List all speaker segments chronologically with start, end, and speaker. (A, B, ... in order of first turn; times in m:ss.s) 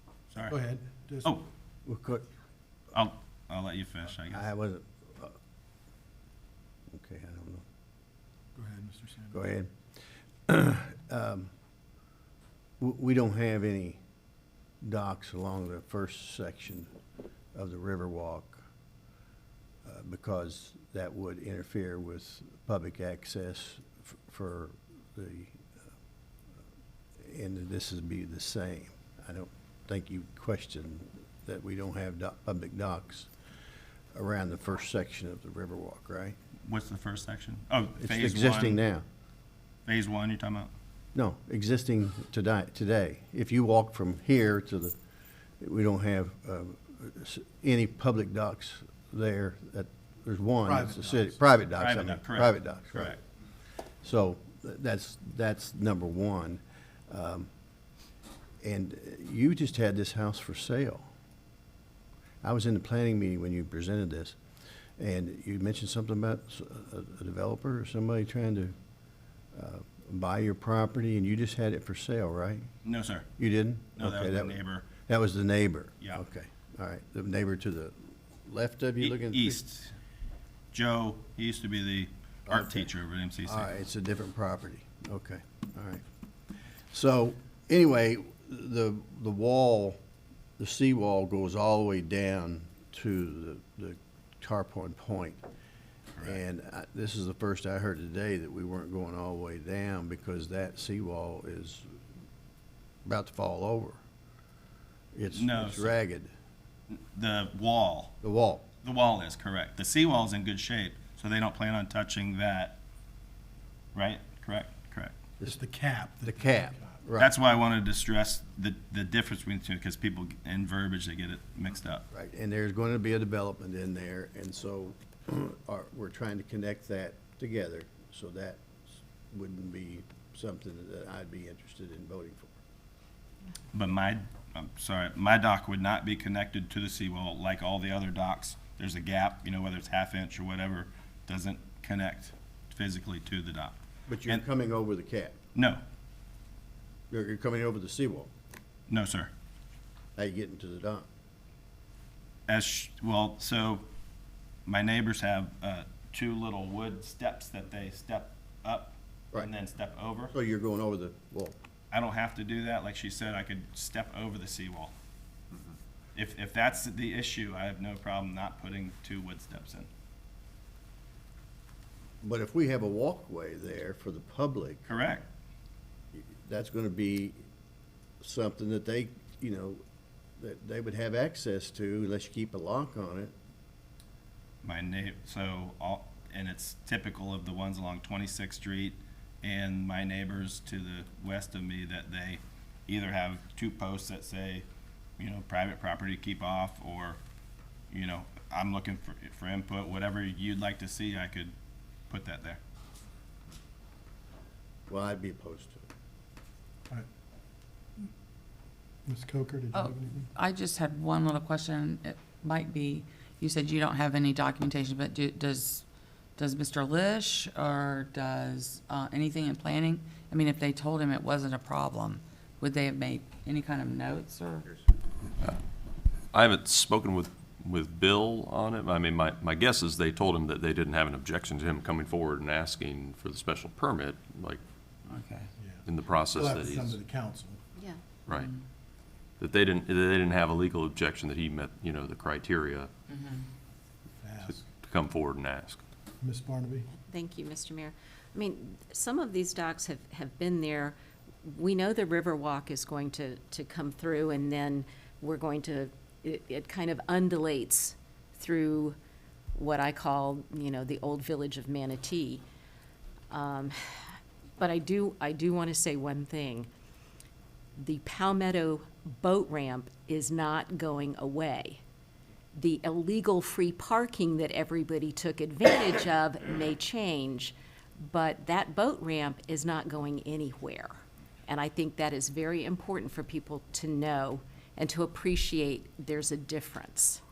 0:00.3-0:00.6 A
0:00.4-0:01.4 B
0:01.2-0:01.5 A
0:01.8-0:02.3 C
0:02.9-0:04.4 A
0:04.3-0:05.4 C
0:06.9-0:07.6 C
0:08.5-0:09.4 B
0:09.3-0:09.7 C
0:10.5-0:11.5 C
0:12.8-0:14.0 C
0:14.8-0:16.9 C
0:17.5-0:18.6 C
0:19.8-0:25.6 C
0:27.2-0:33.3 C
0:34.1-0:36.4 C
0:36.6-0:38.8 A
0:38.0-0:39.0 C
0:39.8-0:40.7 A
0:41.1-0:44.9 C
0:45.6-0:53.2 C
0:50.6-0:51.4 B
0:51.8-0:53.2 A
0:54.0-0:57.5 C
0:58.6-1:01.1 C
1:02.4-1:04.4 C
1:05.0-1:08.7 C
1:09.5-1:12.7 C
1:12.8-1:13.3 A
1:13.4-1:19.6 C
1:14.0-1:14.9 A
1:19.0-1:19.9 A
1:20.7-1:23.7 A
1:22.5-1:22.9 C
1:23.4-1:26.0 C
1:26.9-1:30.0 C
1:30.6-1:35.4 C
1:36.2-1:41.9 C
1:43.0-1:44.0 C
1:45.1-1:46.3 C
1:45.3-1:46.0 A
1:46.9-1:48.2 A
1:48.2-1:48.6 C
1:48.8-1:52.8 A
1:53.9-1:55.1 A
1:55.4-1:56.9 B
1:56.2-1:57.3 C
1:57.2-2:02.0 A
2:02.1-2:12.6 C
2:13.7-2:24.4 A
2:24.1-2:25.4 C
2:25.5-2:25.8 A
2:27.1-2:28.3 C
2:28.9-2:29.3 A
2:30.2-2:31.1 C
2:32.5-2:33.8 A
2:34.6-2:40.3 A
2:40.3-2:41.6 C
2:41.9-2:44.9 A
2:46.1-2:49.9 A
2:52.2-2:54.9 C
2:54.9-2:55.3 A
2:56.2-2:57.4 C
2:58.2-2:59.8 C
3:00.4-3:03.3 C
3:04.6-3:14.7 A
3:15.2-3:17.2 A
3:17.9-3:21.5 A
3:22.1-3:22.6 A
3:24.9-3:25.8 C
3:29.0-3:30.3 B
3:29.7-3:35.8 D
3:36.4-3:44.7 D
3:46.3-3:54.6 E
3:55.1-3:55.5 D
3:55.6-3:57.6 B
3:55.8-3:57.0 E
3:59.4-4:02.9 E
4:03.1-4:03.4 D
4:04.2-4:04.6 B
4:04.4-4:05.8 E
4:06.2-4:06.9 B
4:07.0-4:19.0 F
4:19.5-4:22.4 F
4:23.3-4:23.9 F
4:24.6-4:26.7 F
4:27.8-4:31.8 F
4:32.5-4:47.2 F